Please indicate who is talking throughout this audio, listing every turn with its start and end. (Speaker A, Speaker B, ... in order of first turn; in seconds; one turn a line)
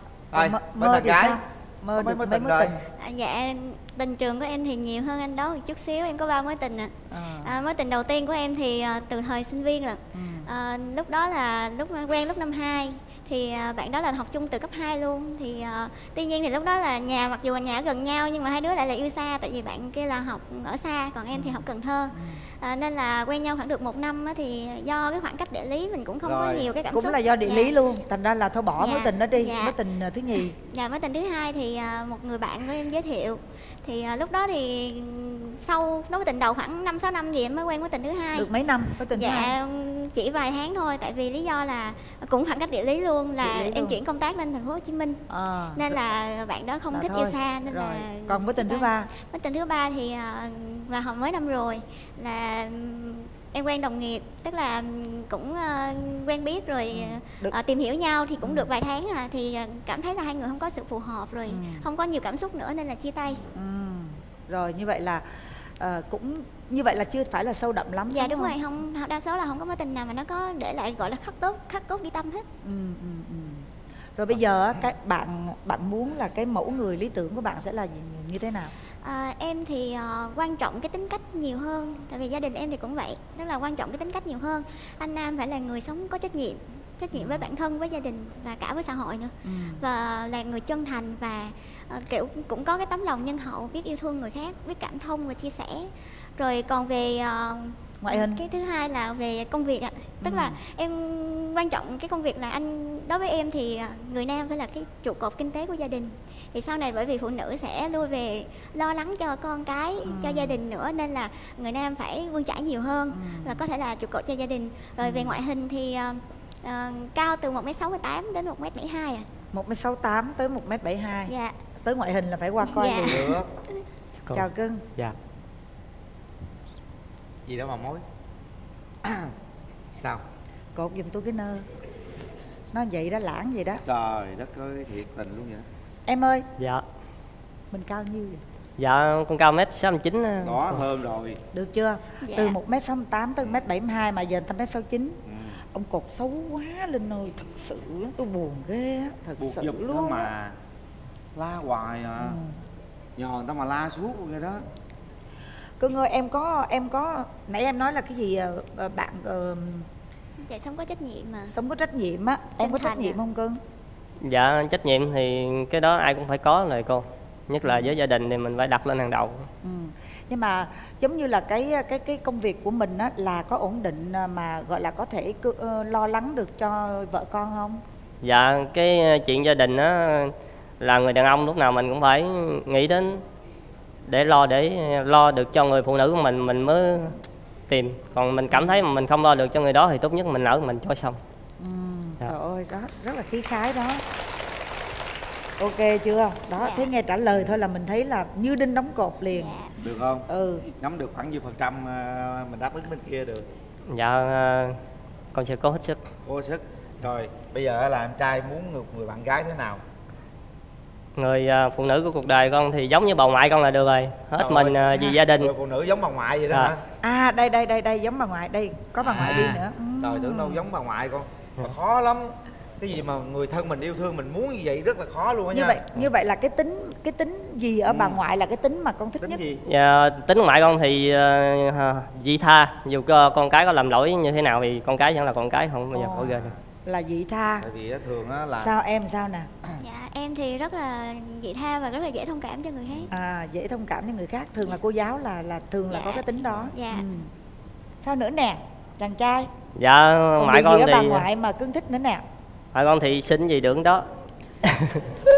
Speaker A: 0.3-1.4
Speaker B: 0.3-2.8
Speaker A: 1.9-2.8
Speaker C: 3.0-27.7
Speaker B: 7.1-7.5
Speaker B: 10.1-10.5
Speaker B: 21.3-22.4
Speaker A: 26.2-26.7
Speaker B: 26.9-30.5
Speaker C: 28.8-29.8
Speaker C: 30.6-38.5
Speaker B: 38.3-39.5
Speaker C: 39.1-45.2
Speaker B: 43.4-44.0
Speaker B: 45.3-45.9
Speaker C: 45.8-63.4
Speaker B: 46.9-49.1
Speaker B: 56.9-57.5
Speaker B: 58.4-58.7
Speaker B: 61.5-61.8
Speaker B: 63.5-68.5
Speaker C: 68.1-72.5
Speaker B: 72.6-78.7
Speaker C: 79.0-119.3
Speaker B: 87.1-87.5
Speaker B: 89.4-89.8
Speaker B: 98.0-98.4
Speaker B: 100.2-100.6
Speaker B: 110.1-110.6
Speaker B: 113.1-113.6
Speaker B: 115.0-115.4
Speaker B: 119.5-123.3
Speaker C: 121.3-121.5
Speaker C: 122.6-123.2
Speaker A: 123.1-123.5
Speaker B: 124.3-124.8
Speaker A: 127.5-128.0
Speaker A: 129.0-129.3
Speaker A: 129.9-130.2
Speaker B: 130.7-131.7
Speaker B: 132.7-133.8
Speaker A: 133.8-135.7
Speaker B: 136.1-136.4
Speaker D: 136.6-136.8
Speaker B: 137.7-138.4
Speaker D: 138.8-140.8
Speaker A: 140.4-141.4
Speaker B: 141.5-145.2
Speaker C: 142.2-142.6
Speaker A: 145.2-145.6
Speaker B: 145.7-150.3
Speaker A: 149.4-150.5
Speaker A: 151.3-152.4
Speaker B: 152.2-152.6
Speaker A: 153.2-154.6
Speaker B: 155.8-159.9
Speaker C: 160.4-161.5
Speaker B: 161.5-163.6
Speaker C: 162.6-163.2
Speaker D: 164.2-169.5
Speaker B: 167.6-167.9
Speaker B: 169.6-177.8
Speaker D: 178.2-183.2
Speaker D: 184.1-187.2
Speaker D: 187.7-191.2
Speaker B: 188.5-188.8
Speaker B: 191.6-194.0
Speaker B: 195.6-199.5
Speaker C: 196.6-196.9
Speaker C: 199.3-199.7
Speaker A: 199.8-200.2
Speaker B: 200.3-200.7
Speaker A: 200.8-203.5
Speaker D: 203.9-204.8
Speaker D: 205.3-206.1
Speaker A: 206.2-209.8
Speaker D: 211.2-215.5
Speaker A: 214.4-216.8
Speaker B: 217.0-220.6
Speaker A: 219.0-225.8
Speaker B: 225.5-229.4
Speaker A: 227.9-228.2
Speaker A: 229.2-229.6
Speaker D: 229.6-236.5
Speaker B: 235.9-236.3
Speaker B: 236.8-237.7
Speaker A: 237.6-238.7
Speaker B: 238.6-239.5
Speaker C: 239.8-243.1
Speaker B: 243.1-247.3
Speaker C: 245.9-247.1
Speaker A: 246.4-246.7
Speaker B: 248.0-249.5
Speaker D: 249.8-251.3
Speaker B: 250.4-252.2
Speaker D: 252.7-254.1
Speaker D: 254.6-255.0